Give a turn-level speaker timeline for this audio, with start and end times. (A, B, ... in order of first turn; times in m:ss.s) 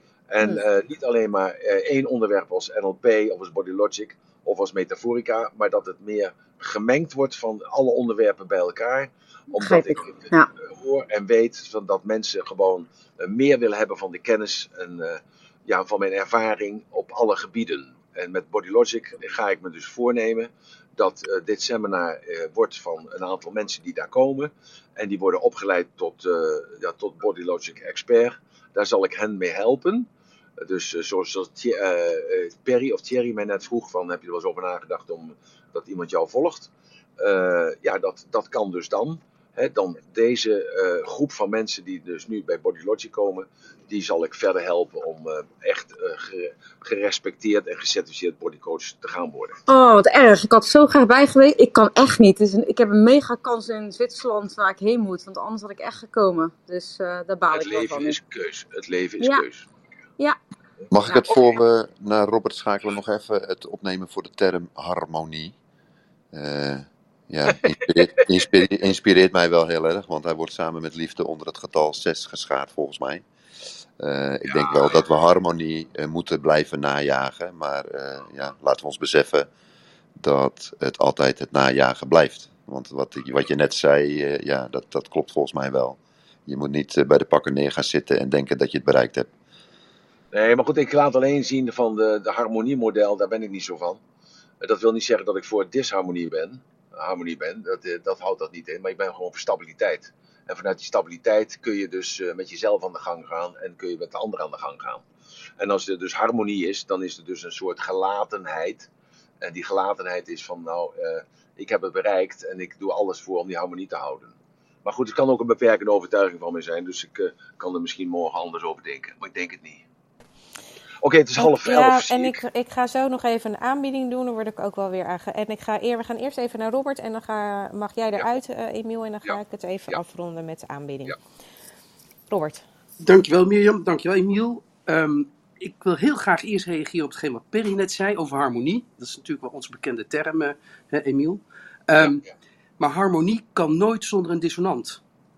0:00.3-0:49.6 A
0:09.6-0:10.5 B
0:49.7-0:58.2 B
0:57.5-0:59.9 A
1:00.9-1:05.5 C
1:06.3-1:13.2 C
1:07.5-1:07.9 A
1:14.0-1:19.5 C
1:14.5-1:14.9 A
1:20.2-1:29.3 C
1:30.3-1:34.0 A
1:34.6-1:45.0 A
1:45.6-1:48.9 A
1:49.4-1:54.3 A
1:54.8-1:59.8 A
2:01.0-2:02.4 A
2:01.4-2:11.2 D
2:09.2-2:10.0 A
2:12.3-2:12.6 D
2:13.0-2:22.2 E
2:22.0-2:22.3 A
2:22.8-2:25.0 E